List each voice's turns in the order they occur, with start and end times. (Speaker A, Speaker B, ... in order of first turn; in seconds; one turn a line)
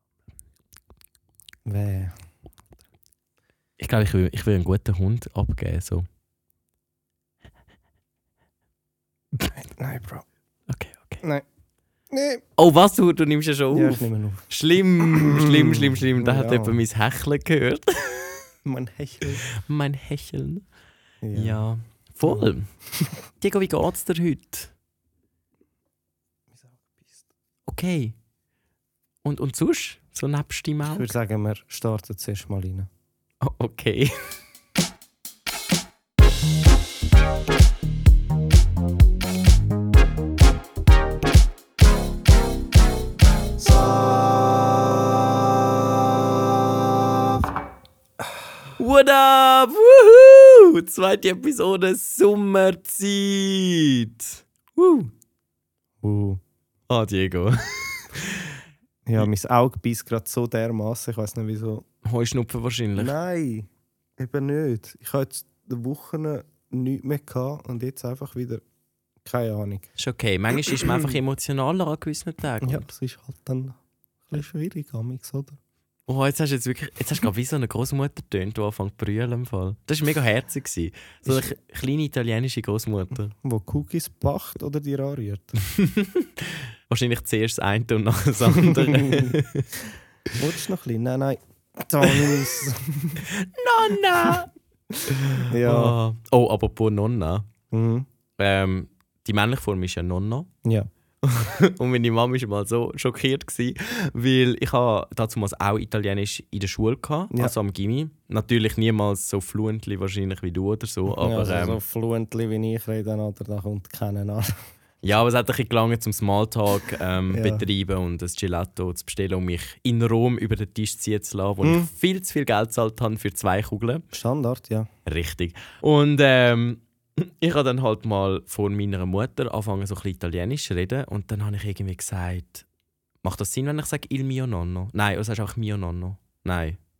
Speaker A: 1.6-2.1
Speaker B: 3.8-6.0
Speaker A: 9.5-10.2
Speaker B: 10.7-11.2
Speaker A: 12.1-12.4
Speaker B: 12.6-18.4
Speaker A: 13.7-14.5
Speaker A: 15.0-16.8
Speaker A: 18.6-19.4
Speaker B: 19.5-20.6
Speaker A: 21.2-21.6
Speaker B: 21.3-22.7
Speaker A: 22.2-23.1
Speaker B: 23.4-24.7
Speaker A: 26.5-27.3
Speaker B: 27.7-28.1
Speaker B: 29.2-31.1
Speaker A: 30.8-32.9
Speaker B: 33.4-34.1
Speaker B: 48.8-55.1
Speaker A: 56.0-56.4
Speaker B: 56.9-58.5
Speaker A: 59.1-61.8
Speaker B: 62.0-63.1
Speaker A: 63.0-68.6
Speaker A: 69.2-69.9
Speaker B: 70.0-72.9
Speaker A: 72.6-75.6
Speaker B: 76.1-83.3
Speaker A: 81.2-81.5
Speaker A: 83.4-85.6
Speaker B: 85.7-89.7
Speaker A: 88.5-89.4
Speaker A: 90.4-93.2
Speaker B: 92.0-92.3
Speaker B: 93.2-94.5
Speaker B: 95.1-97.4
Speaker A: 95.5-96.0
Speaker A: 97.7-98.0
Speaker B: 98.4-100.5
Speaker B: 101.2-111.8
Speaker A: 111.1-114.5
Speaker B: 115.0-124.0
Speaker A: 117.3-117.7
Speaker A: 121.6-121.9
Speaker A: 124.1-124.9
Speaker B: 125.0-132.6
Speaker B: 133.2-136.8